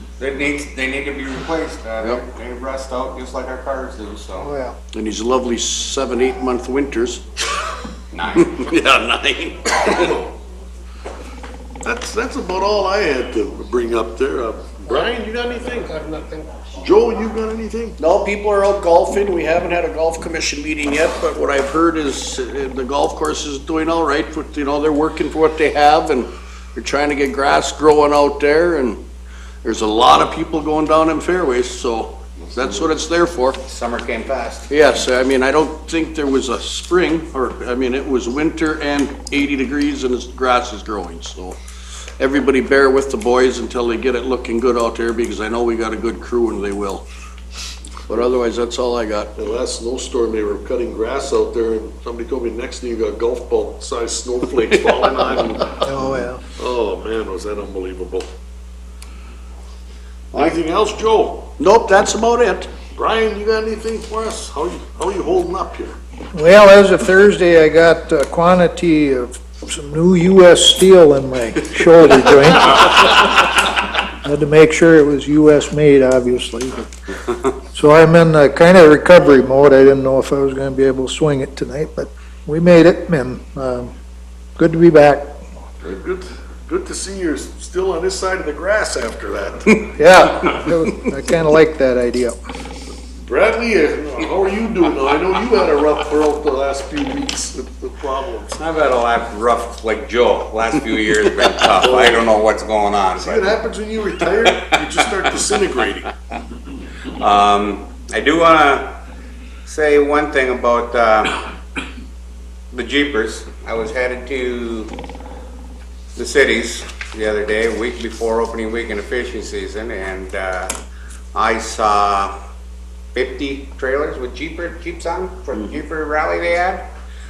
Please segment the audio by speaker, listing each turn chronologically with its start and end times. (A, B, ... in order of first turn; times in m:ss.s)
0:00.2-0:04.5 A
0:04.4-0:04.8 B
0:04.9-0:07.2 C
0:08.1-0:08.6 A
0:08.4-0:10.2 C
0:09.9-0:10.2 D
0:11.8-0:16.1 D
0:16.8-0:18.0 D
0:18.0-0:29.0 C
0:29.6-0:33.6 C
0:33.6-0:34.7 A
0:34.7-0:41.6 C
0:42.2-0:47.1 C
0:48.1-0:49.3 C
0:49.4-0:55.8 D
0:54.6-0:55.9 C
0:55.8-0:56.4 B
0:56.6-0:58.3 D
1:00.3-1:00.6 C
1:00.3-1:01.5 D
1:01.6-1:02.7 C
1:02.9-1:06.0 D
1:06.3-1:13.2 B
1:14.2-1:16.9 B
1:17.7-1:23.9 B
1:24.6-1:25.4 B
1:25.8-1:29.9 D
1:29.9-1:32.4 B
1:33.2-1:38.5 D
1:38.5-1:43.6 A
1:41.8-1:42.3 D
1:43.2-1:46.1 D
1:44.2-1:45.0 A
1:47.2-1:49.0 A
1:49.6-1:51.4 A
1:52.7-1:55.0 A
1:56.2-2:00.7 A
2:01.4-2:02.3 A
2:03.1-2:06.9 A